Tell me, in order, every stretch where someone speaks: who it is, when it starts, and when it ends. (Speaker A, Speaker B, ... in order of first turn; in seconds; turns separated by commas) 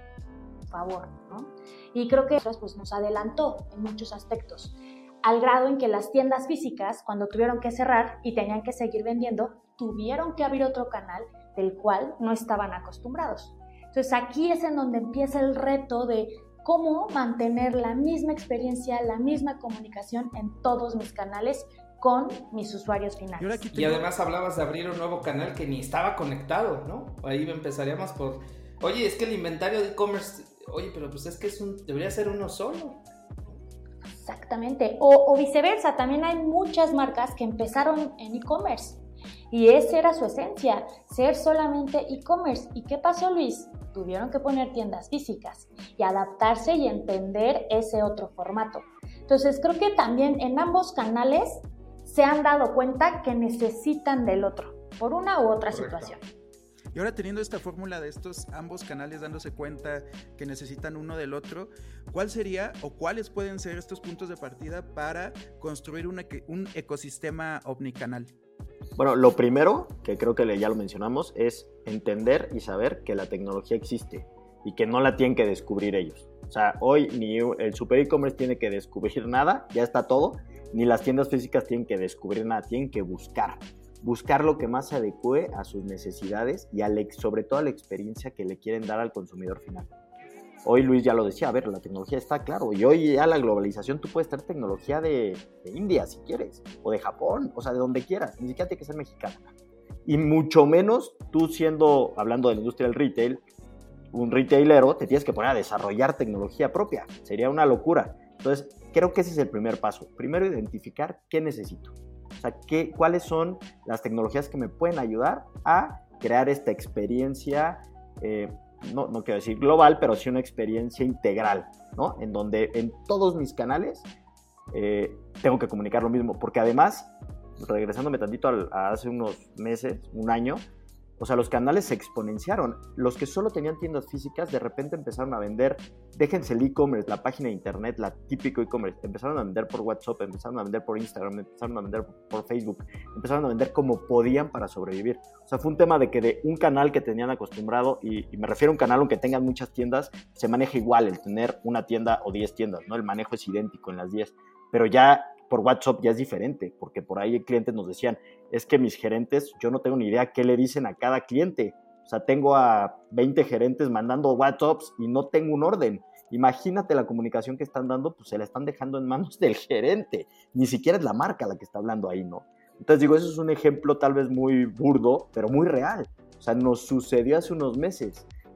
Speaker A: 0.7-23.6, Speaker B: 23.4-24.1, Speaker C: 23.7-33.0, Speaker A: 34.1-39.0, Speaker A: 39.5-56.2, Speaker C: 55.7-56.2, Speaker B: 56.9-68.3, Speaker D: 69.0-89.9, Speaker D: 90.6-99.5, Speaker D: 100.0-103.4, Speaker D: 104.1-124.1, Speaker D: 124.7-130.6, Speaker D: 131.2-178.2